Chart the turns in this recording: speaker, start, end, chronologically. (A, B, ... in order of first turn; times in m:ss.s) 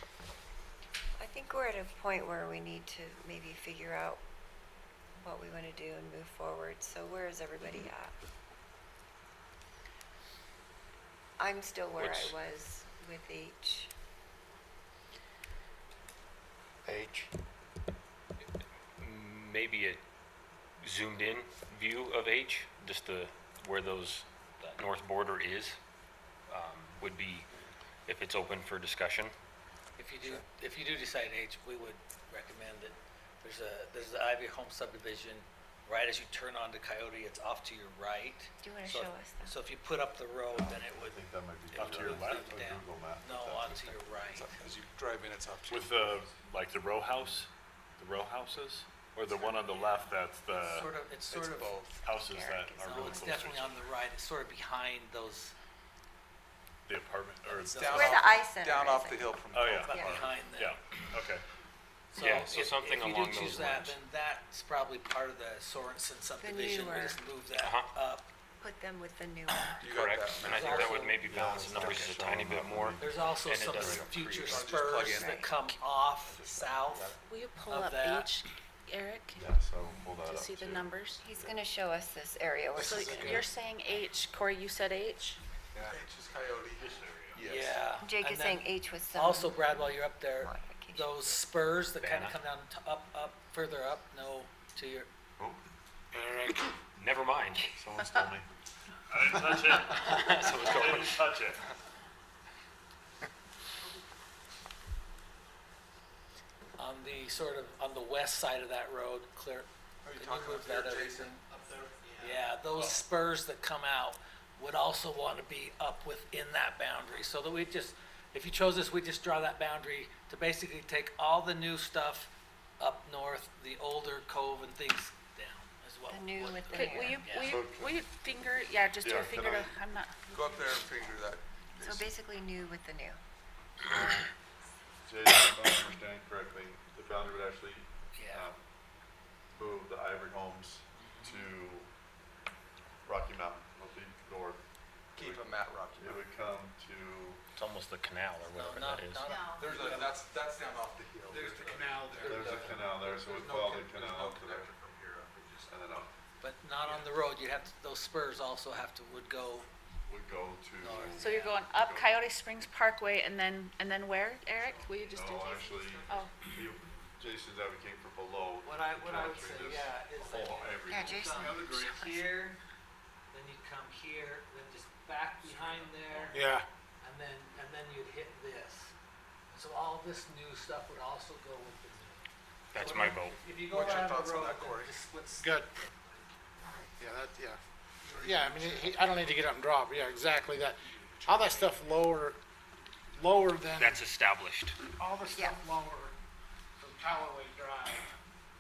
0:01.2-0:04.2 A
0:05.2-0:08.2 A
0:11.4-0:13.9 A
0:12.0-0:12.4 B
0:16.8-0:17.3 B
0:19.0-0:20.0 B
0:20.8-0:25.8 B
0:26.5-0:27.5 B
0:28.1-0:29.3 B
0:30.0-0:44.6 C
0:38.6-0:39.6 A
0:40.5-0:44.0 D
0:41.7-0:42.6 E
0:44.1-0:46.0 F
0:45.7-0:50.9 E
0:50.5-0:51.9 C
0:51.3-0:52.0 F
0:52.0-0:53.8 E
0:52.1-0:53.4 A
0:52.8-0:55.5 C
0:56.9-0:58.1 E
0:57.5-1:00.4 F
0:57.6-0:58.3 C
0:57.9-1:00.2 A
0:59.5-1:01.4 E
0:59.8-1:00.8 C
1:02.1-1:08.3 C
1:02.2-1:04.0 B
1:06.4-1:07.2 A
1:07.6-1:07.9 B
1:08.6-1:09.7 A
1:09.5-1:09.8 C
1:09.8-1:11.0 F
1:09.8-1:14.8 B
1:10.6-1:11.2 C
1:11.2-1:14.1 D
1:13.0-1:18.3 C
1:14.4-1:15.5 F
1:15.1-1:15.5 A
1:16.3-1:17.1 D
1:17.2-1:19.4 G
1:19.4-1:21.6 D
1:20.2-1:21.2 G
1:21.2-1:23.5 A
1:22.8-1:23.4 H
1:22.8-1:25.4 G
1:25.8-1:27.9 F
1:26.8-1:27.4 E
1:27.5-1:35.1 C
1:28.0-1:31.4 A
1:32.0-1:32.4 B
1:36.1-1:36.7 H
1:37.0-1:37.8 B
1:37.8-1:38.4 D
1:39.1-1:41.7 E
1:40.0-1:41.1 B
1:46.8-1:51.4 C
1:50.1-1:51.4 F
1:52.0-2:07.6 C
2:06.1-2:07.3 A
2:06.7-2:10.3 G
2:07.5-2:08.0 D
2:09.0-2:09.7 D
2:10.3-2:12.2 F
2:11.8-2:13.2 A
2:13.8-2:14.3 D
2:15.1-2:18.6 D
2:18.2-2:18.5 C
2:19.5-2:21.9 D
2:21.0-2:21.5 C
2:23.0-2:24.6 D
2:25.2-2:27.4 D
2:25.2-2:26.2 F
2:27.6-2:29.3 B
2:28.5-2:29.6 C
2:29.2-2:29.7 G
2:29.5-2:35.7 F
2:29.6-2:30.2 H
2:31.3-2:33.1 H
2:32.2-2:34.7 D
2:35.7-2:36.1 D
2:36.4-2:39.7 C
2:40.1-2:42.2 D
2:40.8-2:41.6 C
2:41.2-2:46.3 G
2:45.1-2:51.5 D
2:45.8-2:46.2 C
2:48.6-2:52.6 C
2:50.8-2:52.1 A
2:51.5-2:51.9 H
2:53.3-2:58.9 C
2:55.5-2:55.8 F
2:56.3-2:56.7 H
2:59.5-3:06.3 C
3:02.7-3:03.4 B
3:03.7-3:05.0 F
3:05.3-3:05.7 H
3:07.0-3:07.6 H
3:08.0-3:09.1 C
3:08.1-3:12.4 H
3:13.1-3:14.0 H
3:13.8-3:14.8 B
3:15.0-3:16.2 H
3:15.3-3:15.6 A
3:16.8-3:18.1 H